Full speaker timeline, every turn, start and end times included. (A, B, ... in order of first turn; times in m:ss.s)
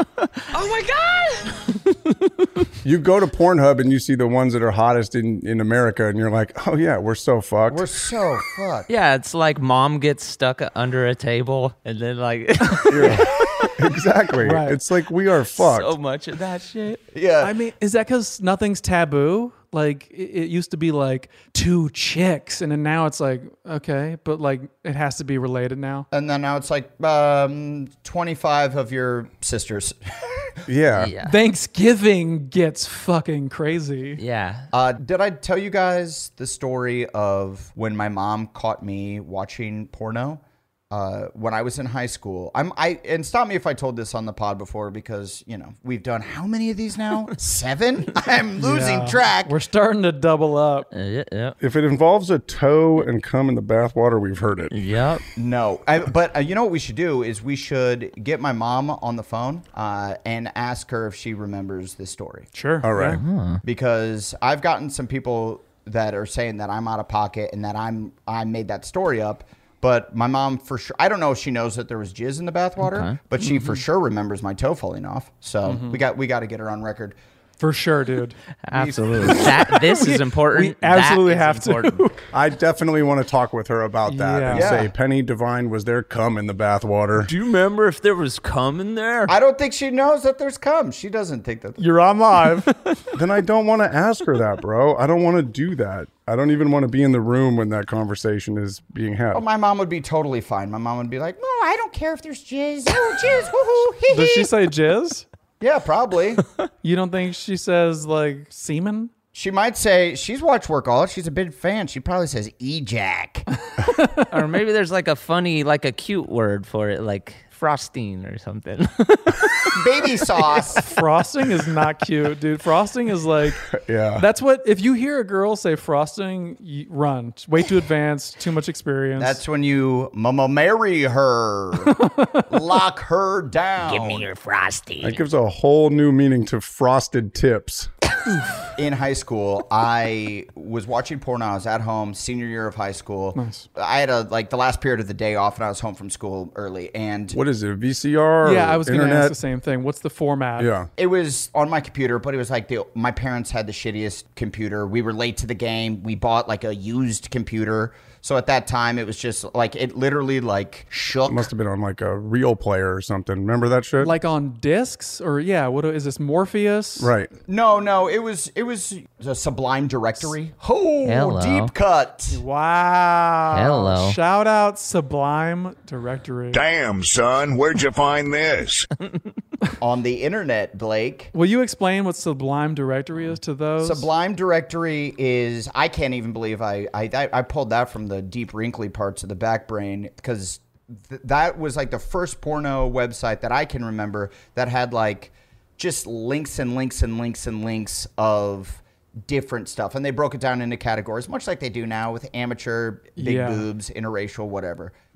0:02.8-0:07.9 A
0:07.7-0:08.9 B
0:08.9-0:13.7 C
0:12.9-0:16.0 A
0:14.4-0:14.8 D
0:15.6-0:17.0 C
0:17.1-0:17.5 B
0:17.4-0:26.1 D
0:26.1-0:30.5 B
0:30.6-0:31.1 A
0:31.0-0:31.4 C
0:31.2-0:34.2 D
0:34.2-0:34.7 C
0:34.7-0:49.5 B
0:48.6-0:50.9 D
0:50.9-0:51.6 C
0:51.6-0:54.7 A
0:54.7-0:55.2 C
0:55.4-1:02.5 B
1:02.6-1:03.2 D
1:02.8-1:03.2 A
1:03.2-1:03.6 C
1:03.6-1:17.1 B
1:12.8-1:13.2 C
1:13.4-1:13.8 D
1:15.6-1:16.0 D
1:17.6-1:22.2 D
1:18.6-1:22.1 C
1:22.3-1:27.3 A
1:24.0-1:24.8 D
1:24.5-1:24.9 B
1:27.2-1:29.3 C
1:29.3-1:31.8 B
1:31.8-1:32.9 D
1:33.1-1:39.4 A
1:39.3-1:44.5 B
1:44.1-1:45.2 D
1:45.6-1:46.4 B
1:46.8-1:49.1 D
1:49.3-1:53.5 B
1:53.7-1:54.3 D
1:54.3-1:59.8 C
1:59.7-2:00.9 B
2:00.7-2:03.6 D
2:03.7-2:04.2 A
2:04.2-2:09.4 D
2:09.2-2:14.3 B
2:11.8-2:12.5 D
2:13.8-2:15.2 C
2:15.0-2:17.9 A
2:18.8-2:27.4 B
2:23.3-2:23.7 D
2:27.3-2:29.3 A
2:28.4-2:30.7 D
2:30.6-2:30.9 A
2:31.0-2:41.5 B
2:41.2-2:44.1 A
2:44.0-2:47.1 D
2:47.0-2:47.3 A
2:47.5-2:52.4 B
2:51.0-2:51.7 C
2:52.3-2:56.6 D
2:53.5-2:54.2 C
2:56.5-2:58.9 E
2:59.8-3:01.3 B
3:01.3-3:04.1 D
3:03.8-3:24.9 B
3:23.2-3:23.6 D